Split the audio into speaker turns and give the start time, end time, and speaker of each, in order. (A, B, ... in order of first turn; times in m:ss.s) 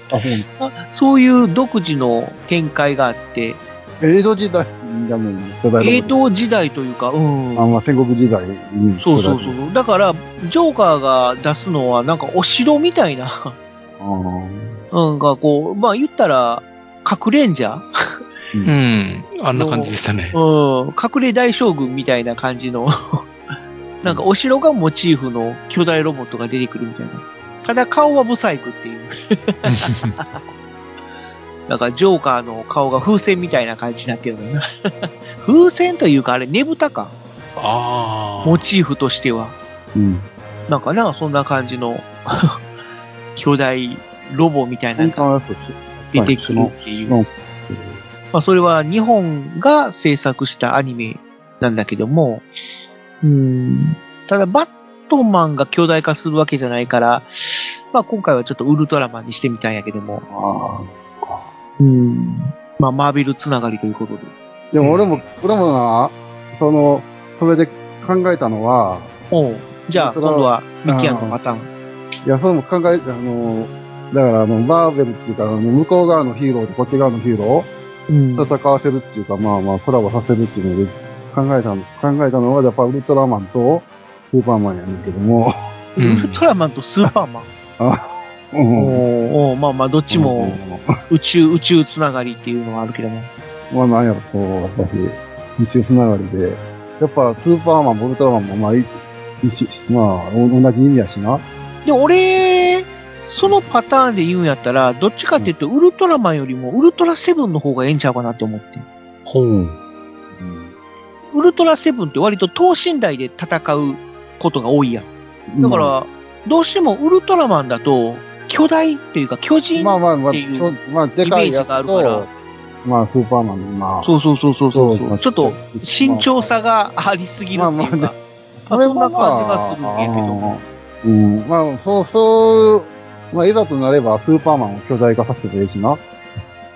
0:00.1-0:00.5 A
0:00.6-0:03.6 B
0:04.0-0:06.2 A
0:05.8-0:07.8 B
0:07.6-0:09.6 A
0:09.0-0:13.6 B
0:14.0-0:14.8 A
0:14.9-0:17.9 B
0:18.6-0:20.4 C
0:19.6-0:23.3 B
0:24.0-0:30.4 B
0:29.7-0:30.2 C
0:31.7-0:37.1 B
0:37.6-0:38.7 C
0:38.4-0:39.6 B
0:40.0-0:40.3 A
0:40.7-0:42.6 B
0:43.4-0:45.3 B
0:45.0-0:48.0 A
0:46.1-0:47.2 B
0:48.3-0:52.5 B
0:53.2-1:00.2 B
1:00.3-1:01.5 A
1:01.8-1:04.3 B
1:04.7-1:09.1 A
1:04.8-1:05.2 C
1:09.3-1:11.7 B
1:09.9-1:11.4 A
1:12.2-1:17.7 A
1:18.1-1:18.5 B
1:18.4-1:25.6 A
1:26.0-1:27.5 B
1:26.0-1:26.4 C
1:27.8-1:29.0 A
1:28.8-1:33.3 B
1:30.1-1:30.9 A
1:33.7-1:41.4 A
1:41.8-1:48.8 B
1:49.3-1:49.8 C
1:50.3-1:50.7 A
1:51.3-1:55.1 B
1:55.5-1:55.9 A
1:55.6-2:02.3 B
1:59.8-2:04.1 A
2:04.0-2:08.2 B
2:04.7-2:06.5 A
2:07.6-2:08.1 A
2:08.6-2:16.0 A
2:08.7-2:10.5 B